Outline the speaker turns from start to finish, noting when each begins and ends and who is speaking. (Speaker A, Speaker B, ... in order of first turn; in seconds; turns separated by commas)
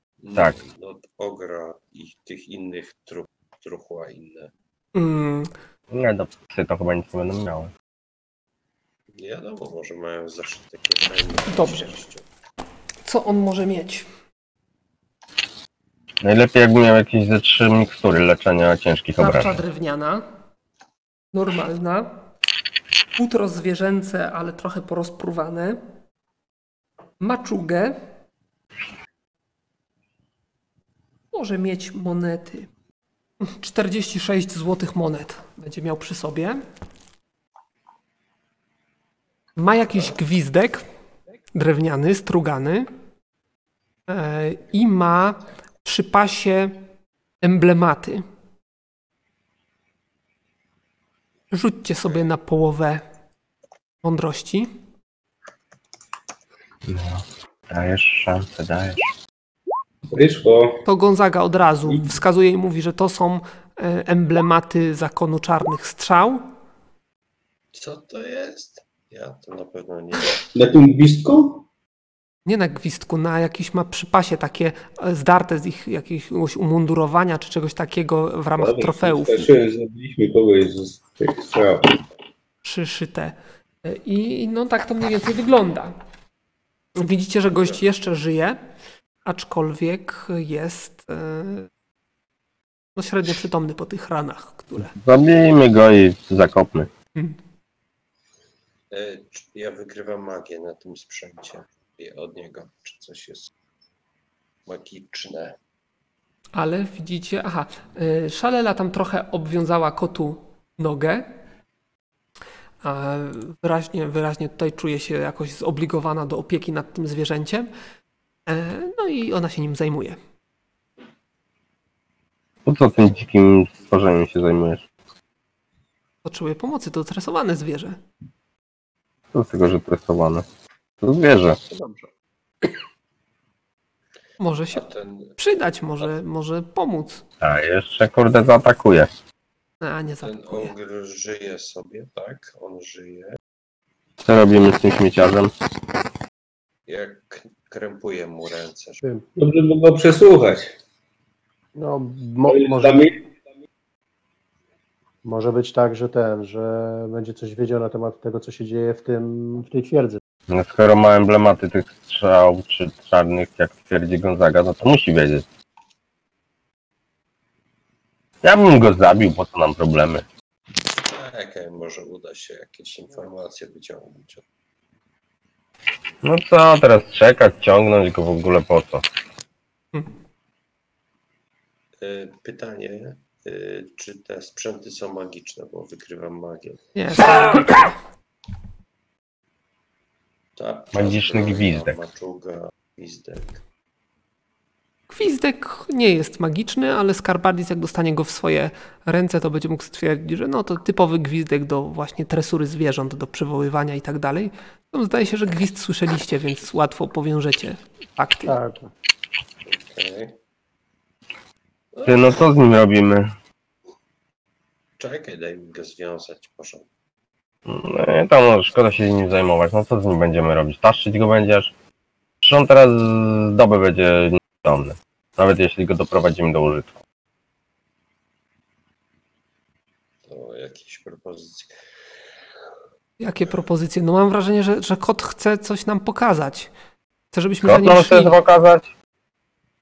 Speaker A: 0.2-4.5, Speaker B: 5.0-5.5, Speaker C: 5.9-7.7, Speaker A: 9.1-12.2, Speaker B: 11.5-11.9, Speaker B: 13.1-14.1, Speaker C: 16.2-19.6, Speaker B: 19.2-20.2, Speaker B: 21.3-22.1, Speaker B: 23.2-25.8, Speaker B: 27.2-28.0, Speaker B: 31.3-32.7, Speaker B: 33.4-36.6, Speaker B: 39.6-40.9, Speaker B: 41.5-42.9, Speaker B: 44.1-46.8, Speaker B: 47.4-48.2, Speaker B: 51.5-53.0, Speaker B: 54.0-54.7, Speaker C: 56.9-59.1, Speaker D: 60.1-60.8, Speaker B: 60.9-66.5, Speaker A: 67.7-70.4, Speaker D: 70.5-71.6, Speaker B: 72.5-79.5, Speaker D: 78.6-82.0, Speaker B: 82.6-86.0, Speaker B: 87.0-88.6, Speaker B: 89.2-91.7, Speaker B: 93.0-94.9, Speaker C: 94.9-96.9, Speaker A: 98.9-103.5, Speaker A: 104.7-105.6, Speaker B: 106.5-111.3, Speaker B: 112.8-117.7, Speaker B: 118.5-120.2, Speaker C: 122.7-124.9, Speaker B: 126.2-128.0, Speaker C: 129.3-130.5, Speaker C: 131.0-131.6, Speaker E: 131.7-132.1, Speaker B: 134.4-137.2, Speaker A: 134.7-135.4, Speaker C: 137.4-139.1, Speaker B: 139.8-140.7, Speaker A: 140.2-143.4, Speaker C: 144.2-145.5, Speaker A: 146.9-149.1, Speaker D: 149.4-150.7, Speaker E: 151.8-153.1, Speaker D: 152.5-153.2, Speaker E: 155.2-160.2, Speaker C: 160.5-165.5, Speaker C: 168.4-170.2, Speaker A: 171.0-174.4, Speaker C: 176.2-179.1, Speaker A: 182.0-186.8, Speaker B: 186.9-188.0, Speaker A: 190.6-193.6, Speaker C: 190.9-192.0, Speaker B: 195.1-208.6, Speaker E: 208.5-208.9, Speaker A: 209.6-210.4, Speaker C: 212.1-213.3, Speaker A: 215.0-216.9, Speaker C: 217.7-221.7, Speaker C: 222.4-226.9, Speaker A: 230.2-231.7, Speaker B: 233.2-236.7, Speaker B: 237.3-238.3, Speaker C: 237.6-238.9